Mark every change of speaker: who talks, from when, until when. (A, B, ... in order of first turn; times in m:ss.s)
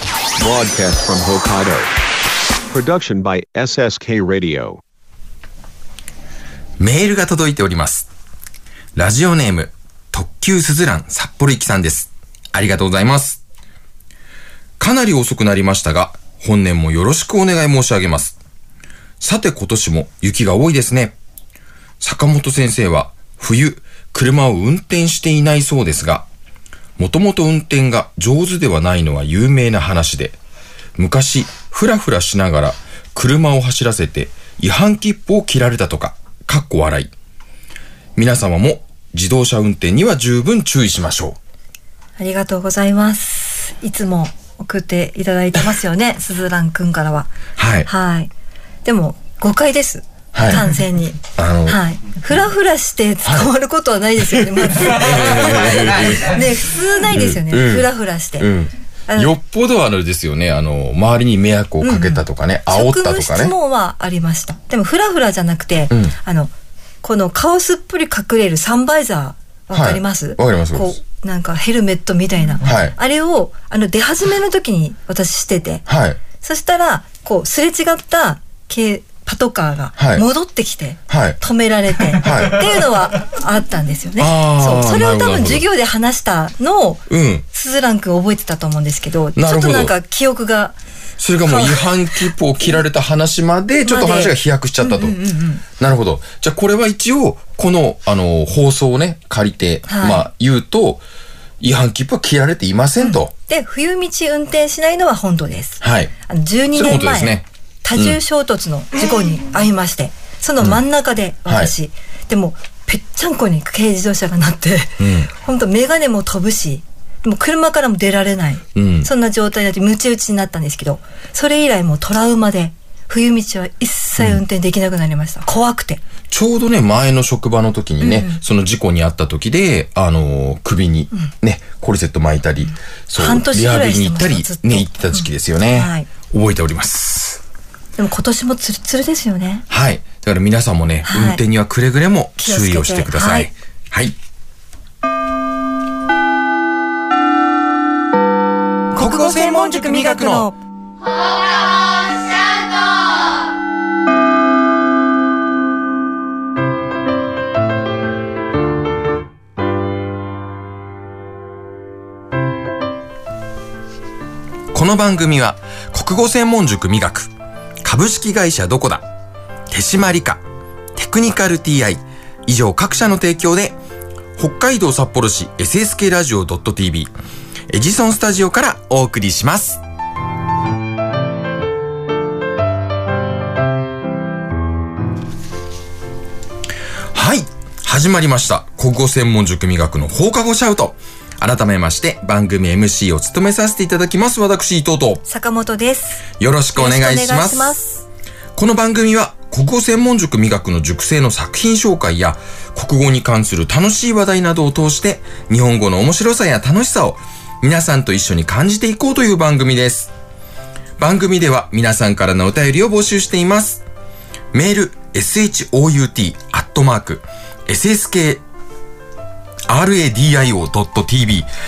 0:00.5-0:01.8 A
0:02.8-0:04.8 A
0:06.8-0:08.1 B
0:09.0-0:13.4 B
0:14.8-0:18.4 B
0:19.2-0:21.1 B
0:22.0-0:26.3 B
0:27.0-0:30.4 B
0:31.0-0:37.1 B
0:38.2-0:41.4 B
0:42.2-0:47.3 C
0:47.6-0:47.9 B
0:47.8-0:48.3 C
0:48.8-0:58.5 C
0:50.3-0:50.6 B
0:51.4-0:51.8 B
0:53.2-0:53.5 B
0:54.3-0:56.5 B
0:57.1-1:03.5 B
1:01.8-1:06.5 C
1:05.9-1:06.2 B
1:07.0-1:15.8 C
1:09.7-1:11.0 B
1:12.6-1:12.9 B
1:15.9-1:16.2 B
1:16.4-1:30.8 C
1:20.0-1:20.3 B
1:21.1-1:21.4 B
1:22.2-1:22.6 B
1:24.2-1:25.7 B
1:27.1-1:27.4 B
1:29.4-1:30.0 B
1:31.2-1:35.2 B
1:31.5-1:31.8 C
1:33.8-1:35.6 C
1:35.8-1:41.0 B
1:39.9-1:40.3 C
1:41.6-1:43.3 B
1:43.0-2:06.0 C
1:45.8-1:46.1 B
1:46.8-1:48.2 B
1:51.5-1:51.7 B
1:55.0-1:55.3 B
1:58.8-1:59.1 B
2:06.3-2:17.4 B
2:08.0-2:08.4 C
2:13.2-2:16.1 C
2:18.0-2:19.6 C
2:19.7-2:24.2 B
2:21.0-2:21.4 C
2:22.4-2:23.5 C
2:28.9-2:30.6 C
2:29.0-2:30.5 B
2:44.7-2:47.3 B
2:47.8-2:49.1 B
2:49.7-2:50.4 B
2:51.0-2:53.8 B
2:54.4-2:57.1 B
2:57.7-2:59.8 B
3:07.1-3:15.2 B
3:15.3-3:18.0 C
3:16.4-3:17.8 B
3:18.6-3:30.1 B
3:31.0-3:33.8 B
3:34.5-3:38.4 B
3:39.7-3:41.5 B